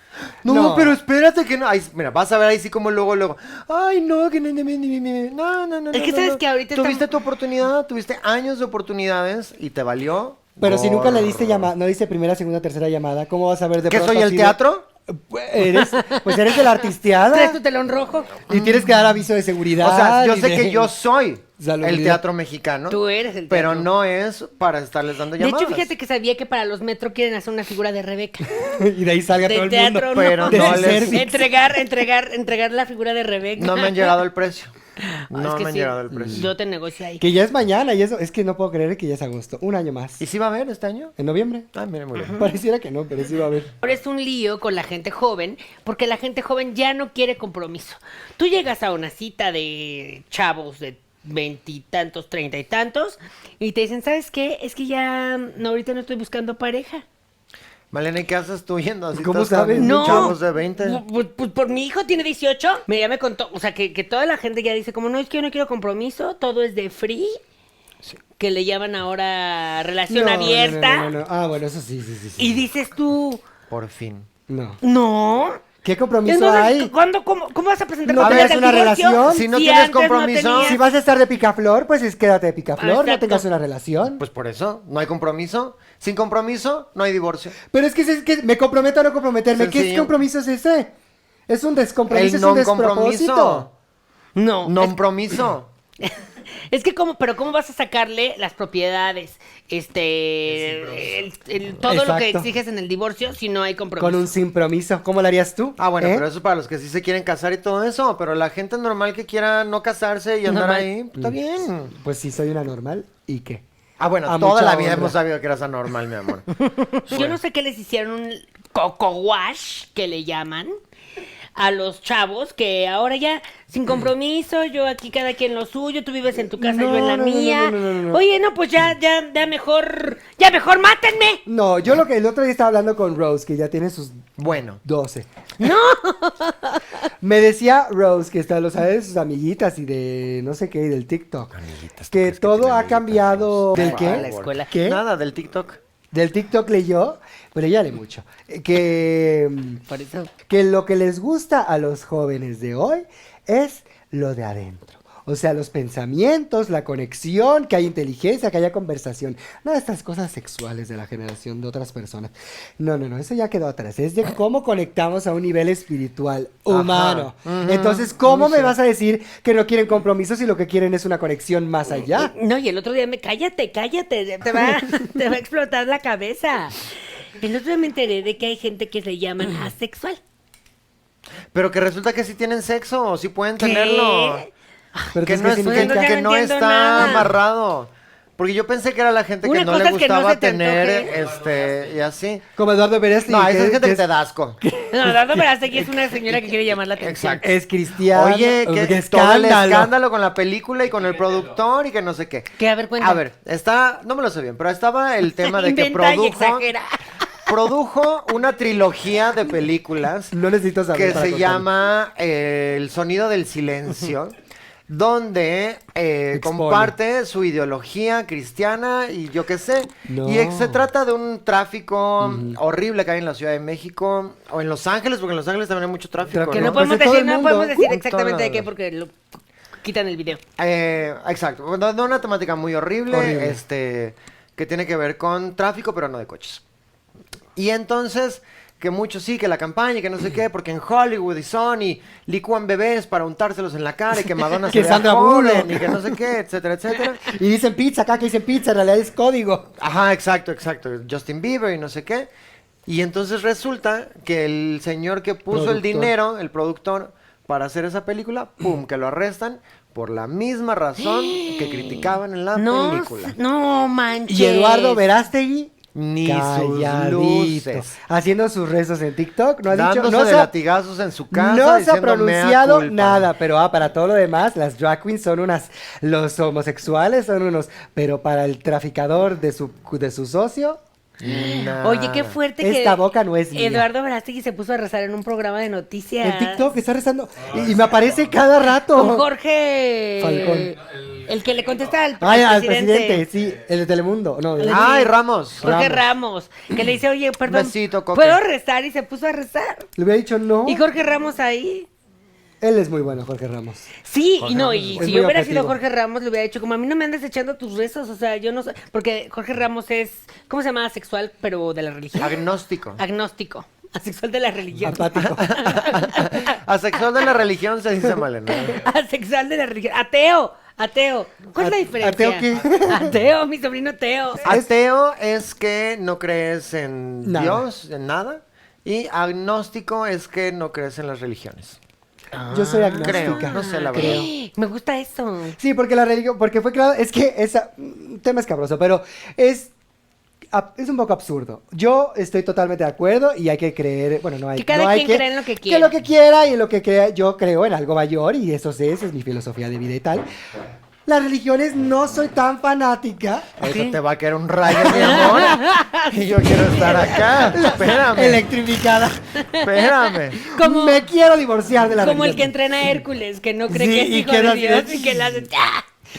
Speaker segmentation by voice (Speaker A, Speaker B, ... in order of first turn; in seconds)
Speaker A: 0.4-11.7, 13.9-14.9, 18.5-18.9, 19.8-25.9, 30.1-31.3, 33.6-34.7, 35.3-36.5, 40.2-41.1, 41.7-42.5, 57.9-61.0, 73.7-74.3, 78.2-80.8, 84.2-87.6, 89.5-90.1, 92.1-93.7, 94.7-95.7, 105.8-111.9, 114.0-116.5, 117.1-117.4, 134.4-134.8, 141.5-145.8, 166.7-168.8, 181.5-184.4, 185.2-192.5, 193.3-194.6, 197.0-197.5, 198.1-206.7, 207.5-210.4, 210.9-214.3, 214.9-226.8, 227.8-228.7, 230.6-236.6, 237.6-247.3, 249.8-252.3, 252.9-263.4, 265.9-267.9, 269.7-273.3, 281.2-282.4, 294.7-295.8, 297.5-298.4, 304.4-305.1, 312.2-313.0, 315.2-318.8, 324.4-331.8, 333.0-334.3, 353.6-358.5, 359.6-360.5
Speaker B: 0.5-1.0, 10.6-14.6, 15.1-17.6, 18.5-20.9, 21.6-22.2, 28.6-31.4, 36.1-36.5, 37.2-40.2, 41.2-41.7, 42.3-43.7, 59.1-60.3, 70.1-72.6, 74.5-74.8, 75.8-76.9, 78.1-79.5, 80.6-84.2, 87.7-90.9, 91.5-93.7, 101.8-102.5, 104.0-106.3, 111.9-113.6, 114.2-115.2, 126.6-128.2, 131.5-134.3, 134.8-135.3, 137.2-141.6, 142.1-145.0, 146.1-149.8, 150.5-172.3, 185.1-186.1, 192.6-194.1, 194.6-195.8, 197.4-199.9, 210.3-211.7, 216.3-216.9, 220.1-220.9, 222.2-222.6, 226.3-227.9, 233.1-233.6, 244.7-246.2, 247.2-249.7, 255.5-256.1, 264.3-270.5, 271.3-280.8, 282.6-283.9, 286.2-289.3, 290.2-290.8, 292.2-294.9, 295.6-296.0, 300.0-300.8, 302.6-303.9, 305.0-305.8, 314.8-315.6, 321.6-323.1, 327.2-327.7, 332.5-334.3, 335.6-339.7, 340.5-350.3, 351.1-353.7, 354.8-355.5, 357.5-359.2, 360.6-362.5, 363.7-365.5
Speaker C: 5.9-7.1, 15.6-16.8, 17.3-18.4, 22.9-23.9, 25.4-28.5, 29.4-34.2, 35.0-37.2, 43.8-57.0, 59.8-67.4, 68.4-71.1, 72.4-73.4, 74.8-75.6, 76.2-80.8, 82.8-83.5, 94.4-95.0, 96.0-104.3, 110.5-110.9, 116.6-120.8, 121.6-131.4, 135.6-136.8, 143.8-144.7, 149.9-150.3, 172.2-180.2, 183.6-187.3, 189.4-191.1, 194.9-197.5, 202.6-203.2, 205.4-207.0, 226.5-229.2, 229.8-230.4, 261.0-265.0, 281.2-286.6, 288.9-293.3, 294.6-299.9, 300.7-301.9, 304.1-312.4, 313.0-316.6, 318.5-324.4, 332.3-335.6, 344.6-345.9, 353.6-354.0, 354.9-357.3, 359.4-361.0, 362.0-365.9